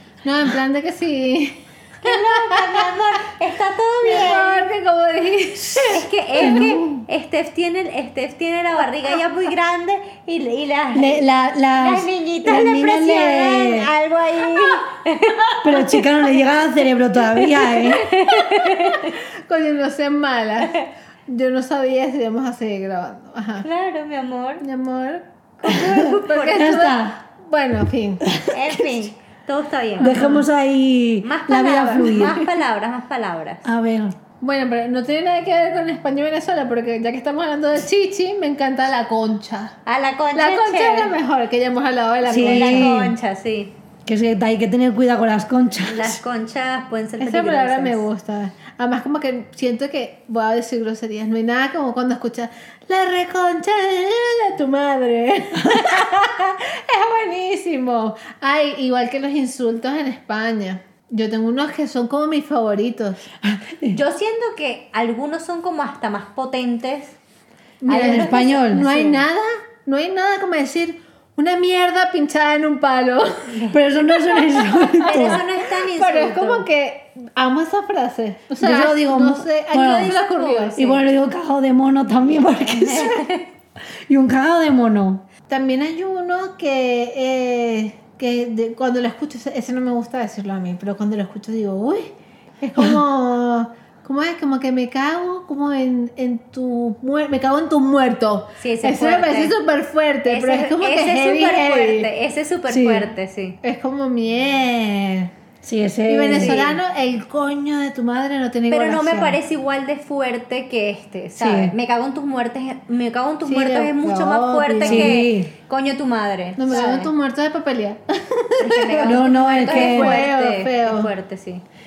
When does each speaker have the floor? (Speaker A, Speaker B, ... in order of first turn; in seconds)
Speaker A: 0.2-2.9, 4.0-6.7, 18.3-23.6, 24.6-28.3, 30.0-30.4, 32.0-32.4, 34.4-39.8, 40.4-43.0, 47.2-63.3, 67.8-80.8, 85.5-92.1, 92.6-102.1, 103.6-105.3, 106.1-109.4, 113.4-115.2, 116.6-121.1
Speaker B: 2.0-4.7, 5.9-11.2, 11.8-16.0, 17.3-19.2, 20.6-20.9, 23.6-24.6, 25.6-26.8, 28.5-30.3, 31.2-33.7, 39.9-41.1, 42.3-43.7, 45.8-48.0, 63.9-67.2, 67.9-69.3, 75.0-76.7, 79.8-81.0, 82.6-83.5, 98.6-99.5, 100.3-103.6, 106.3-106.8, 108.7-117.1, 118.6-121.6
Speaker C: 6.4-7.1, 10.9-13.9, 15.6-18.1, 26.5-27.2, 28.3-28.9, 30.0-32.4, 33.6-34.2, 42.3-43.1, 44.1-46.2, 63.4-64.0, 67.9-68.9, 73.7-75.4, 78.6-80.1, 80.8-83.3, 84.1-85.2, 102.7-103.1, 105.6-106.6, 111.4-111.7, 114.8-115.5, 119.0-120.2